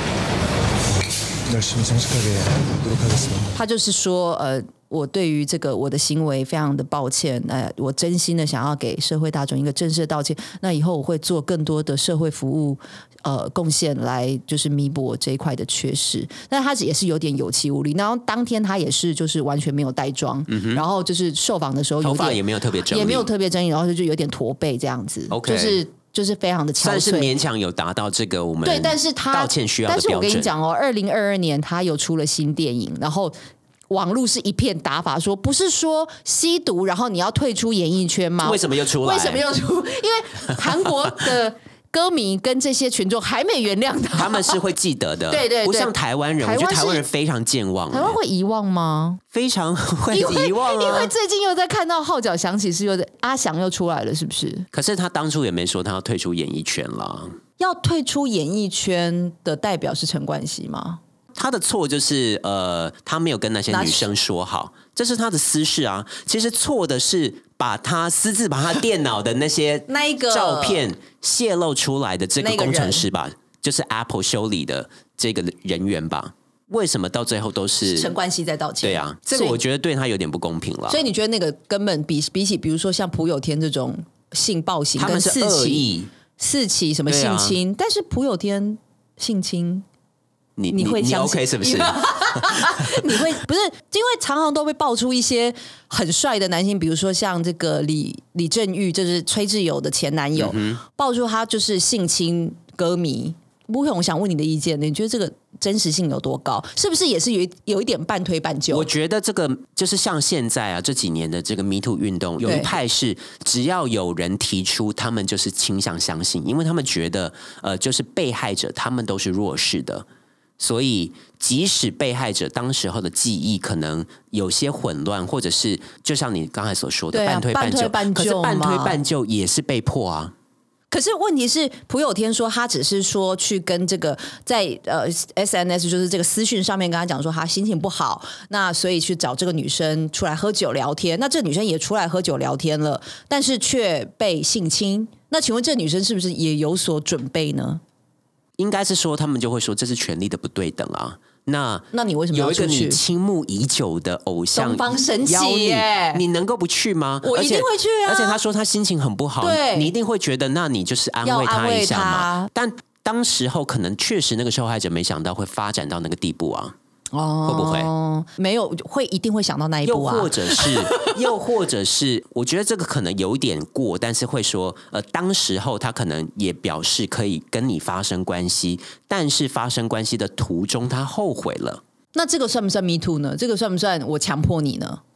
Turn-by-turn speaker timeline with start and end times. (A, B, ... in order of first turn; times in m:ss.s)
0:01.5-0:03.6 A
0:03.6-0:27.3 B
0:20.5-0:20.8 C
0:22.0-0:23.3 C
0:25.3-0:25.8 C
0:26.8-0:30.5 C
0:28.6-0:33.4 B
0:33.9-0:44.6 B
0:38.4-0:39.4 C
0:44.1-0:48.2 C
0:45.3-0:47.0 B
0:47.9-0:49.2 B
0:49.3-0:51.1 C
0:50.1-0:54.7 B
0:54.7-0:57.4 C
0:57.6-1:01.0 B
1:01.4-1:18.1 C
1:03.7-1:04.1 B
1:09.9-1:10.9 B
1:12.4-1:13.0 B
1:17.9-1:19.6 B
1:18.8-1:21.0 C
1:20.9-1:25.9 B
1:25.0-1:26.1 C
1:26.4-1:29.8 B
1:27.1-1:27.6 C
1:30.6-1:33.2 C
1:30.7-1:48.9 B
1:40.4-1:40.8 C
1:48.7-2:00.1 C
1:52.4-1:52.7 B
2:00.6-2:10.3 C
2:07.1-2:09.0 B
2:10.9-2:27.8 B
2:28.6-2:46.8 C
2:31.9-2:33.0 B
2:34.6-2:36.2 B
2:37.2-2:38.4 B
2:39.4-2:39.9 B
2:41.2-2:42.5 B
2:47.1-2:51.1 B
2:47.5-2:47.9 C
2:49.9-3:01.8 C
3:02.1-3:05.0 B